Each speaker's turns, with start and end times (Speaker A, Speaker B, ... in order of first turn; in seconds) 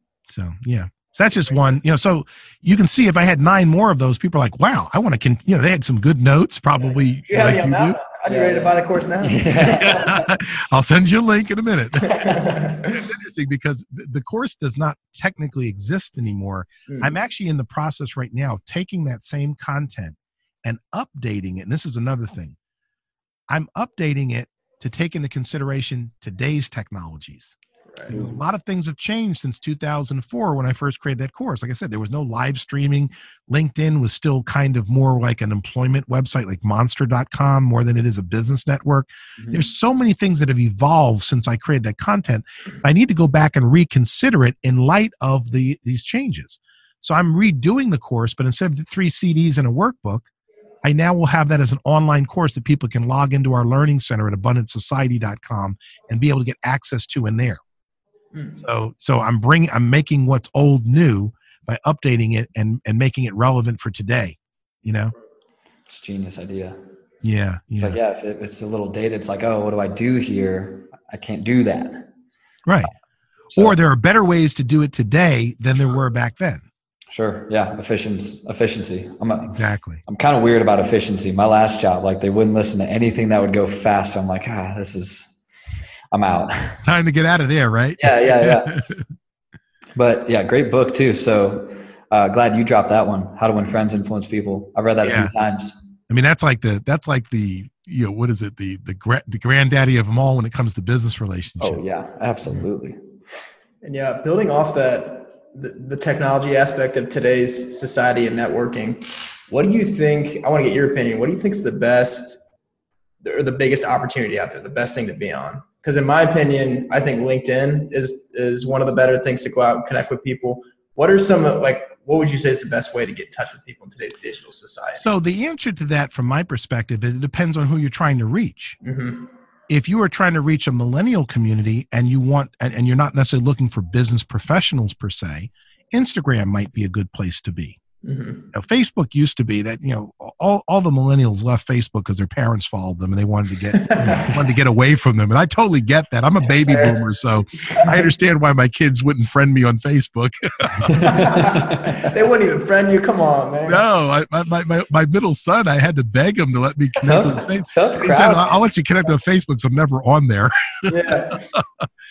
Speaker A: 0.3-8.0, 9.6-22.6, 23.5-27.6, 28.1-50.3, 50.8-57.6, 58.6-65.1, 67.2-68.0, 72.7-72.9, 73.5-76.7, 79.4-80.0, 86.8-89.0, 95.0-95.3, 96.1-101.8, 125.0-128.8, 129.7-137.8, 138.5-151.4, 153.7-161.8
Speaker B: 7.3-10.1, 12.0-12.9, 16.9-17.1, 58.3-58.6, 103.8-112.4, 113.2-125.0, 128.8-129.3, 138.0-138.5, 143.8-144.3, 146.5-147.0, 151.1-153.9, 160.9-161.5
Speaker C: 8.3-10.2, 28.1-28.4, 39.4-39.7, 65.9-66.8, 67.8-72.1, 77.1-79.6, 80.1-85.4, 86.1-86.8, 88.0-88.8, 90.0-95.7, 101.6-103.0, 150.8-152.1, 157.0-158.6